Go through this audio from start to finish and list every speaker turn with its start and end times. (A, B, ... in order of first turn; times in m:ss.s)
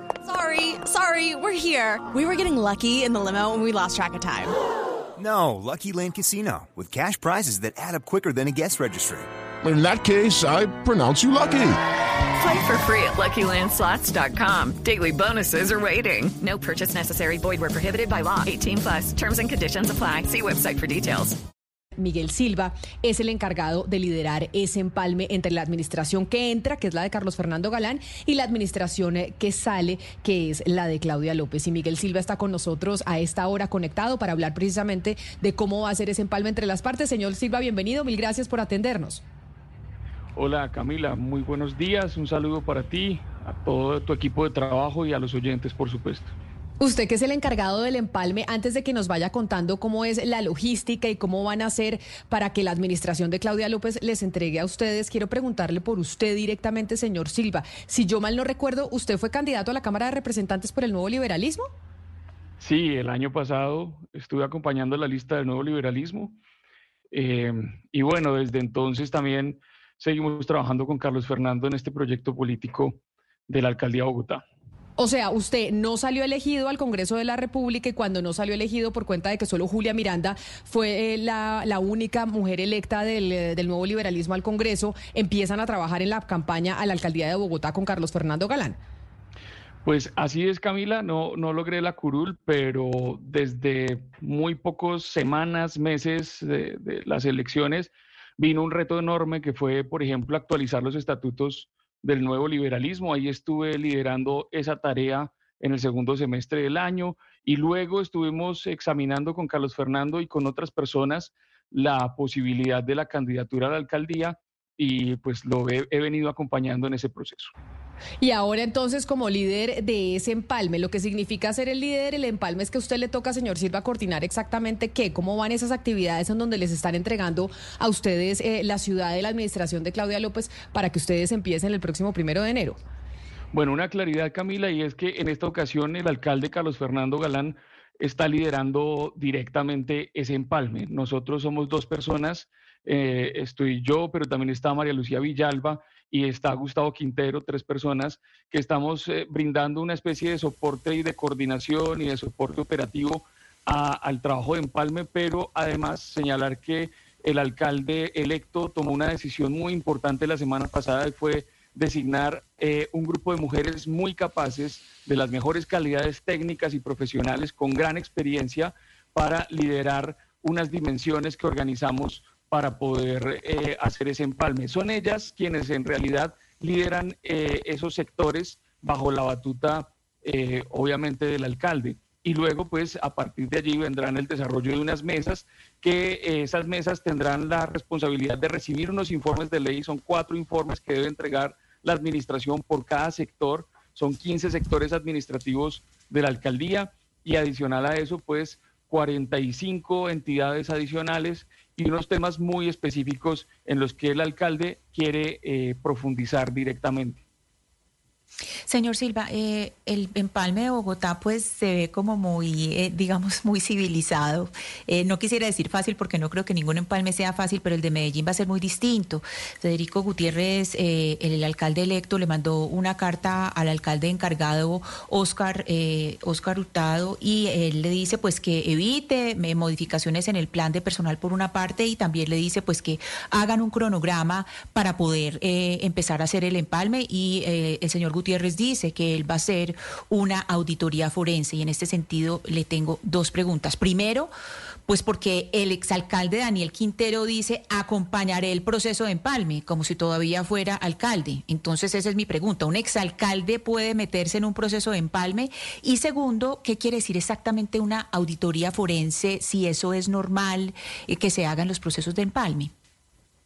0:00.2-0:04.5 A
0:05.2-0:09.3 B
0:09.6-0:11.8 C
0:12.3-0:21.4 D
0:22.0-0:39.2 E
0:40.4-0:46.3 F
0:46.8-1:01.7 E
1:02.6-1:06.4 F
1:07.1-1:14.4 F
1:15.0-1:28.8 E
1:29.8-1:57.5 F
1:58.2-2:12.8 E
2:13.5-3:27.2 F
3:28.7-4:04.3 G
4:04.9-4:22.7 G